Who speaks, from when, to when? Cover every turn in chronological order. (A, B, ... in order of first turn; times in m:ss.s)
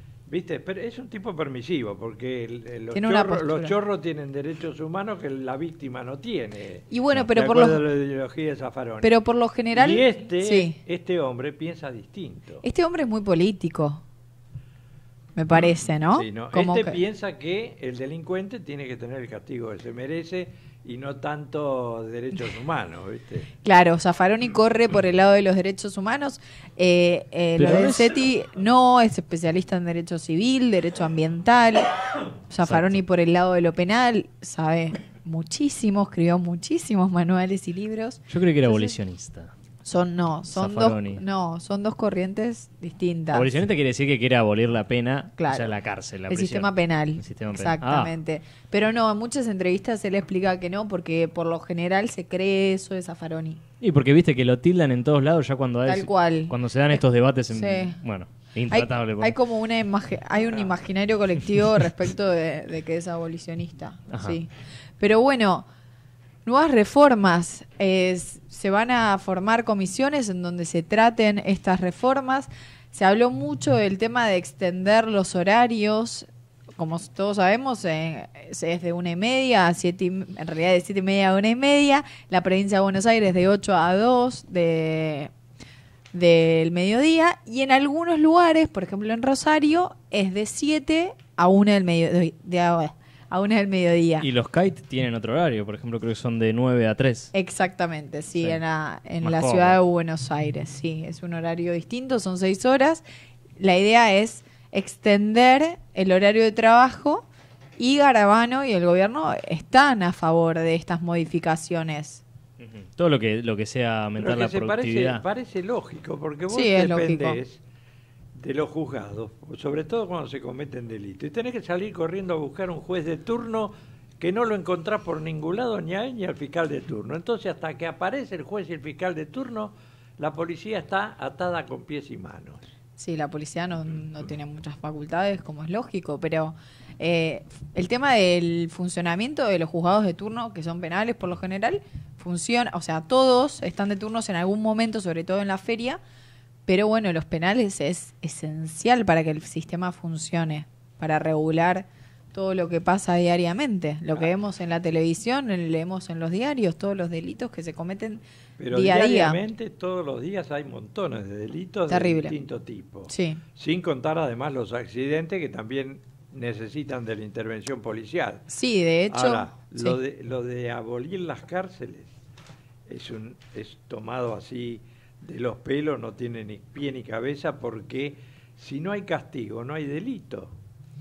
0:00.3-0:09.2 A
0:02.9-0:03.7 B
0:06.9-0:07.8 B
0:09.0-0:10.8 B
0:09.7-0:12.6 A
0:12.6-0:14.0 B
0:15.4-0:17.0 B
0:15.5-0:23.5 A
0:23.6-0:31.9 B
0:27.6-0:28.1 C
0:32.5-0:39.0 B
0:32.6-0:33.0 C
0:38.3-0:39.5 C
0:39.8-0:43.5 B
0:40.5-0:41.2 C
0:43.3-0:48.1 C
0:45.4-0:45.7 B
0:46.3-0:53.6 B
0:53.8-0:59.3 C
0:55.8-0:58.0 B
0:58.7-1:04.5 B
1:04.1-1:04.4 C
1:05.0-1:05.6 B
1:06.4-1:25.3 B
1:26.1-1:34.3 B
1:34.2-1:37.3 C
1:37.3-1:43.0 B
1:39.2-1:39.8 C
1:43.6-1:47.2 B
1:47.8-1:52.2 B
1:52.6-1:55.2 C
1:54.2-1:57.6 A
1:56.5-1:57.4 B
1:58.3-2:12.6 A
2:13.0-2:26.0 B
2:26.6-2:39.4 B
2:38.6-2:48.5 A
2:41.9-2:42.3 B
2:43.1-2:43.4 B
2:48.5-2:50.0 B
2:49.1-2:52.1 A
2:52.9-3:00.5 A